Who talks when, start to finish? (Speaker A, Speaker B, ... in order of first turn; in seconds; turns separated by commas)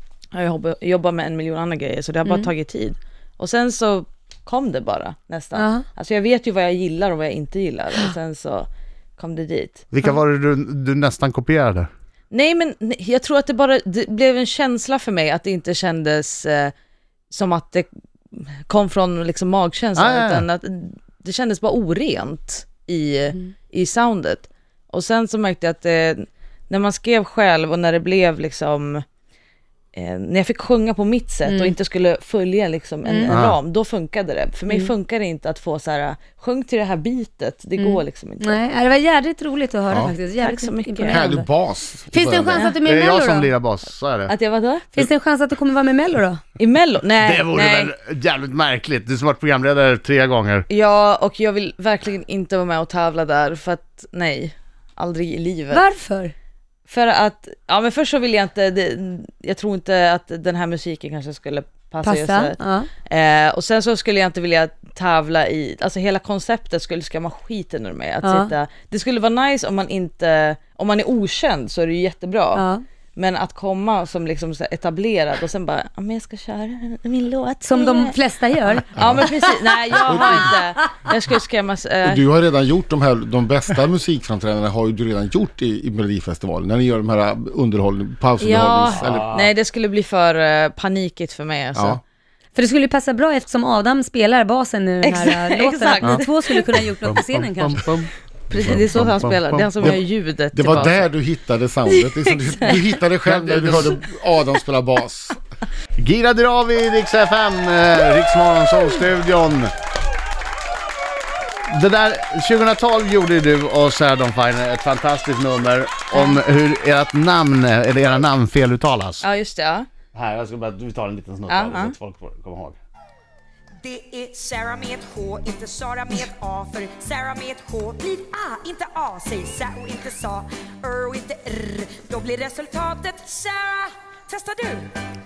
Speaker A: 0.3-9.9, Speaker B: 5.5-5.8, Speaker C: 9.9-11.9, Speaker A: 12.3-16.7, Speaker A: 17.3-29.0, Speaker C: 19.9-20.4, Speaker A: 29.9-38.5, Speaker B: 31.4-31.7, Speaker B: 33.0-33.4, Speaker C: 33.3-33.6, Speaker B: 37.8-41.5, Speaker D: 39.9-40.1, Speaker A: 40.4-41.3, Speaker D: 41.1-42.6, Speaker B: 42.1-43.5, Speaker C: 42.8-44.3, Speaker A: 44.3-44.9, Speaker B: 44.9-46.4, Speaker A: 46.6-47.9, Speaker C: 47.2-50.7, Speaker A: 50.7-55.8, Speaker B: 55.7-56.3, Speaker A: 56.9-72.6, Speaker B: 62.0-62.9, Speaker B: 68.2-68.5, Speaker B: 72.5-72.8, Speaker A: 73.2-78.2, Speaker B: 77.6-79.1, Speaker A: 78.9-82.2, Speaker D: 79.0-79.3, Speaker D: 80.1-80.5, Speaker D: 82.0-89.3, Speaker A: 88.4-92.0, Speaker C: 88.9-89.5, Speaker D: 91.7-92.0, Speaker B: 92.5-97.8, Speaker A: 95.0-96.7, Speaker C: 97.0-100.0, Speaker A: 98.5-101.1, Speaker D: 100.5-105.4, Speaker A: 101.9-102.9, Speaker C: 103.2-104.0, Speaker C: 106.0-109.7, Speaker C: 111.7-119.2, Speaker A: 116.1-116.4, Speaker A: 119.2-119.9, Speaker C: 120.1-122.8, Speaker A: 121.5-121.9, Speaker E: 123.8-134.9